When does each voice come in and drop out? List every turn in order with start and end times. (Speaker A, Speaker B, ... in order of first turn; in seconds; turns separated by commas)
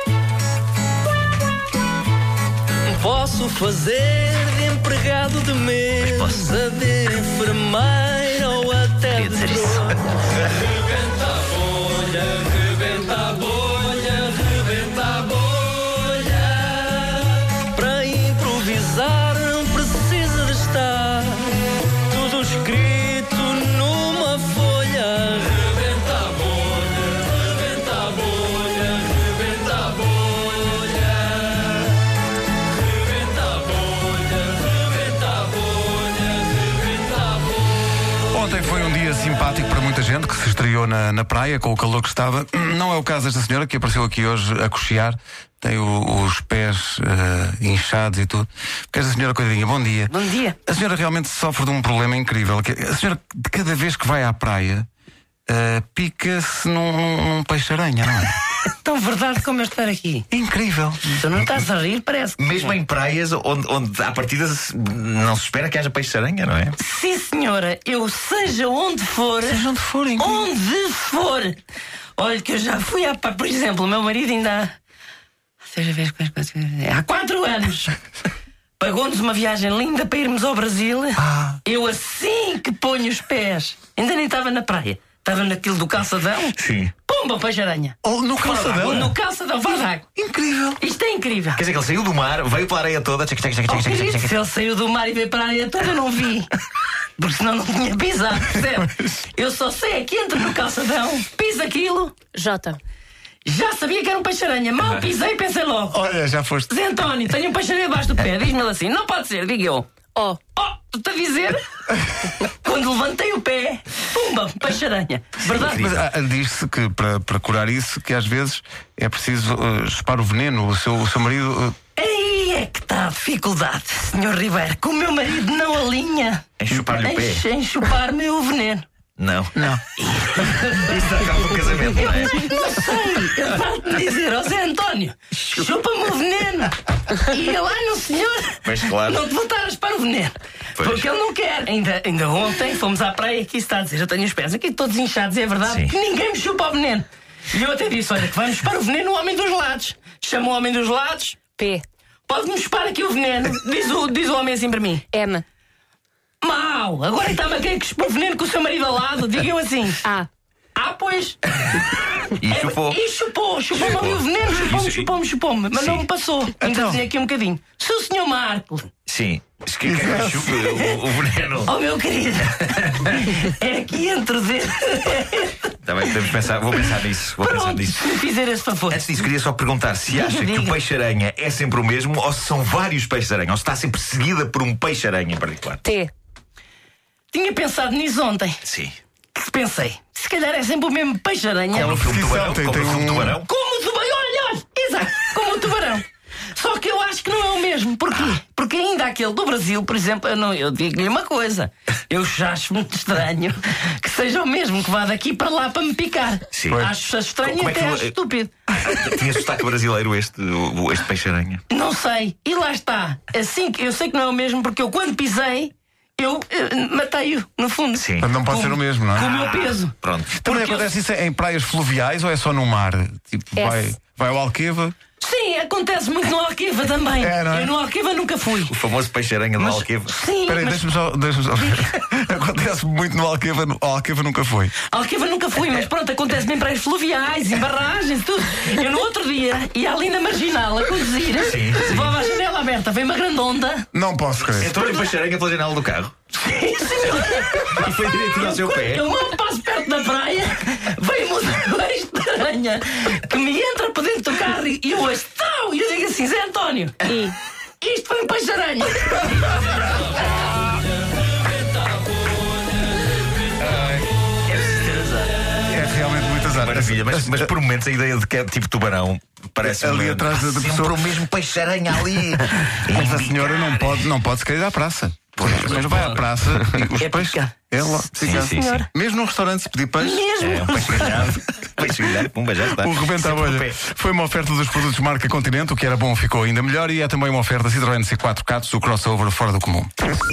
Speaker A: 2.9-10.0, Speaker B: 6.0-6.5, Speaker B: 9.1-10.0, Speaker A: 11.8-27.0, Speaker B: 14.4-14.9, Speaker B: 26.5-27.0, Speaker B: 28.0-30.5, Speaker C: 38.3-54.9, Speaker B: 50.1-50.6, Speaker C: 55.5-58.4, Speaker B: 58.6-60.2, Speaker C: 60.3-61.4, Speaker B: 61.1-62.7, Speaker D: 62.4-66.8, Speaker B: 66.8-69.7, Speaker C: 69.4-70.5, Speaker B: 70.2-71.6, Speaker B: 72.2-74.7, Speaker B: 75.6-78.0, Speaker B: 78.8-90.1, Speaker C: 81.2-81.6, Speaker D: 86.6-86.9, Speaker C: 88.0-89.1, Speaker C: 90.2-90.8, Speaker B: 90.8-91.6, Speaker D: 91.5-94.3, Speaker B: 93.7-96.5, Speaker B: 97.2-102.2, Speaker E: 102.3-102.8, Speaker B: 103.4-106.0, Speaker C: 105.9-106.7, Speaker B: 106.7-109.9, Speaker E: 110.1-110.4, Speaker B: 110.5-111.7, Speaker B: 112.3-115.9, Speaker C: 115.5-121.8, Speaker D: 115.5-116.0, Speaker B: 122.0-128.8, Speaker D: 126.6-127.4, Speaker D: 129.2-129.7, Speaker C: 129.6-129.8, Speaker B: 130.0-151.5, Speaker D: 130.5-132.5, Speaker D: 138.6-139.2, Speaker D: 140.8-141.1, Speaker D: 145.6-145.9, Speaker E: 151.5-151.8, Speaker B: 152.3-155.1, Speaker E: 155.1-155.4, Speaker B: 156.4-160.0, Speaker E: 160.0-160.3, Speaker B: 160.8-161.4, Speaker D: 162.3-163.0, Speaker B: 162.4-168.9, Speaker D: 163.7-165.1, Speaker D: 165.7-166.1, Speaker C: 166.7-166.9, Speaker D: 169.1-171.7, Speaker C: 169.9-170.3, Speaker B: 170.0-171.1, Speaker B: 171.6-175.7, Speaker D: 175.8-178.2, Speaker B: 177.4-179.1, Speaker D: 178.9-185.8, Speaker B: 180.1-180.7, Speaker E: 185.8-186.1, Speaker B: 187.3-188.6, Speaker D: 188.6-189.0, Speaker B: 189.3-191.9, Speaker D: 191.7-193.5, Speaker C: 191.7-193.4, Speaker B: 193.4-208.5, Speaker D: 206.5-206.9, Speaker D: 207.4-208.1, Speaker D: 208.7-211.6, Speaker B: 211.7-220.9, Speaker D: 217.9-218.3, Speaker C: 218.2-219.3, Speaker D: 219.2-220.4, Speaker C: 220.4-224.9, Speaker E: 223.6-223.8, Speaker B: 225.2-228.7, Speaker C: 227.2-227.7, Speaker D: 228.7-230.1, Speaker C: 229.6-229.8, Speaker B: 230.1-230.8, Speaker C: 230.4-234.7, Speaker B: 234.9-243.9, Speaker D: 241.4-242.2, Speaker C: 243.9-244.7, Speaker B: 244.6-245.0, Speaker D: 244.6-246.2, Speaker B: 246.3-257.1, Speaker D: 247.3-249.1, Speaker E: 257.1-257.4, Speaker B: 257.8-260.4, Speaker B: 263.6-265.3, Speaker C: 265.6-267.5, Speaker D: 266.6-274.1, Speaker C: 269.6-271.2, Speaker C: 272.9-280.2, Speaker D: 275.4-276.9, Speaker B: 277.0-277.5, Speaker D: 278.1-278.8, Speaker B: 278.2-278.9, Speaker B: 280.0-281.3, Speaker D: 280.4-283.8, Speaker C: 282.7-289.9